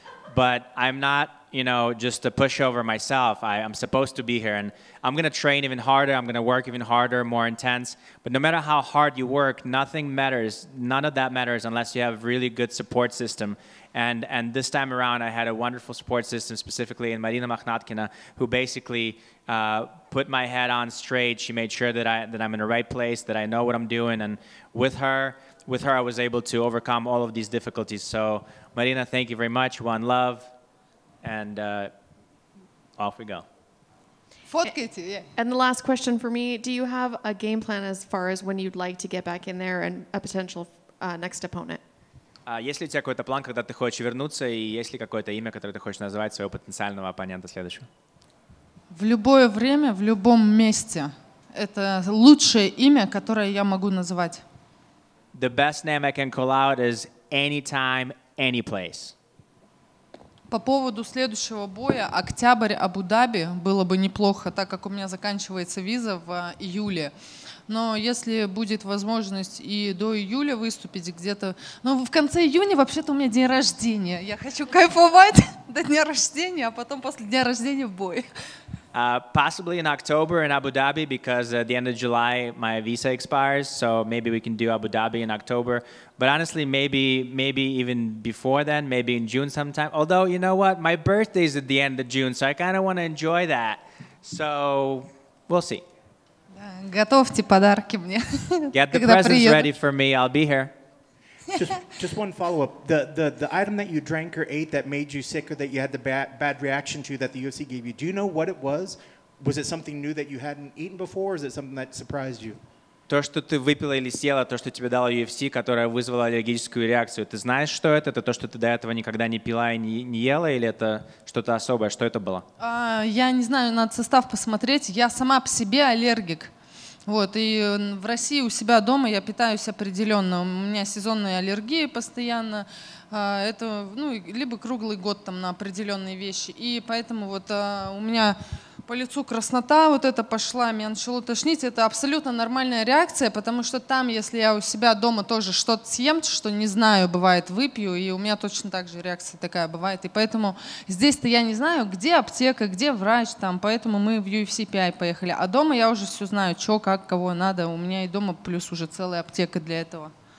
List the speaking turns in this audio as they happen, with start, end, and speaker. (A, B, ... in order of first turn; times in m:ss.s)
0:00.3-0:30.5 A
0:31.2-0:31.9 A
0:33.0-0:33.4 A
0:34.5-0:35.3 B
0:35.4-0:41.8 C
0:42.5-0:47.9 A
0:48.9-0:54.4 B
0:55.3-0:59.1 A
1:00.5-1:07.1 B
1:07.7-1:18.2 B
1:18.9-1:35.8 A
1:36.5-1:39.7 B
1:38.7-1:40.7 A
1:41.6-1:52.6 D
1:53.1-2:02.4 A
2:02.6-2:06.5 B
2:07.1-2:40.1 B